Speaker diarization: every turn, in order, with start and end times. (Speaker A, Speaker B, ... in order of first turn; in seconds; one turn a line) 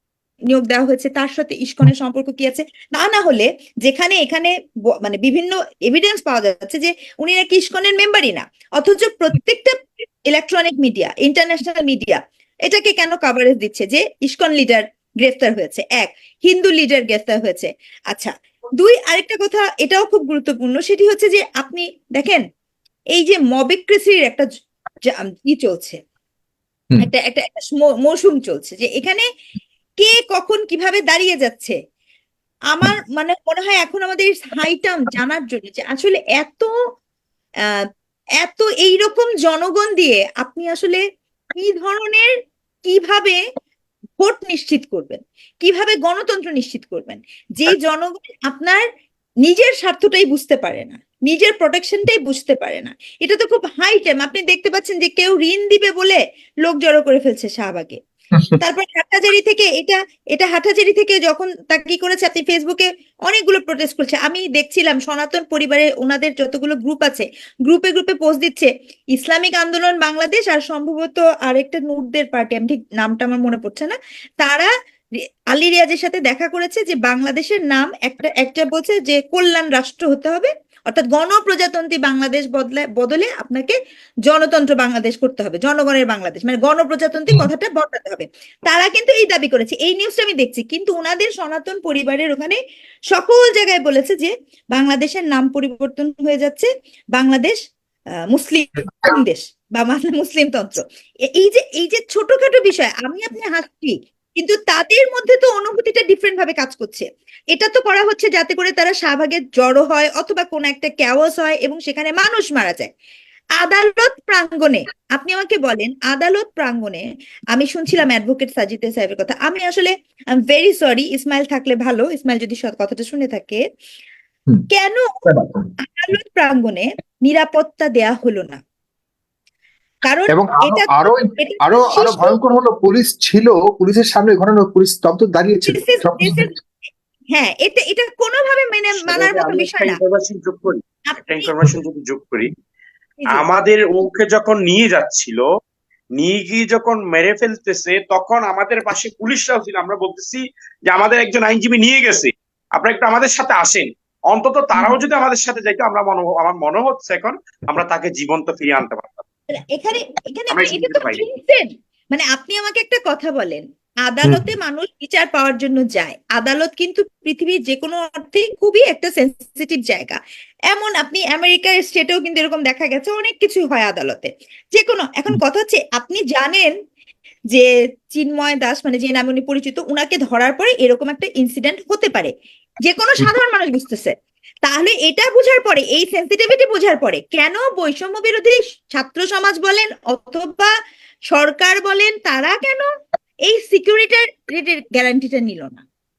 Speaker A: 0.5-22.4
Speaker A: 23.1-24.4
Speaker A: 25.1-26.0
Speaker A: 27.0-29.2
Speaker A: 30.0-31.8
Speaker A: 32.7-36.7
Speaker A: 38.4-41.0
Speaker A: 41.5-42.3
Speaker A: 42.9-43.4
Speaker A: 44.2-48.8
Speaker A: 49.4-58.0
Speaker A: 58.6-74.7
Speaker A: 75.5-92.6
Speaker A: 93.1-97.6
Speaker A: 98.3-112.9
Speaker A: 113.6-119.9
Speaker A: 120.5-123.6
Speaker A: 124.7-125.2
Speaker B: 125.2-125.7
Speaker A: 125.8-128.6
Speaker A: 130.1-132.3
Speaker B: 130.3-136.5
Speaker A: 135.7-136.5
Speaker A: 137.3-140.0
Speaker C: 139.0-142.5
Speaker A: 141.1-141.5
Speaker A: 143.2-143.5
Speaker C: 143.3-145.4
Speaker C: 146.2-159.2
Speaker A: 159.5-170.2
Speaker C: 160.5-161.2
Speaker B: 164.2-164.5
Speaker A: 170.7-176.7
Speaker A: 177.5-182.3
Speaker A: 182.8-184.1
Speaker A: 184.7-190.7
Speaker A: 191.3-192.9
Speaker A: 193.5-195.8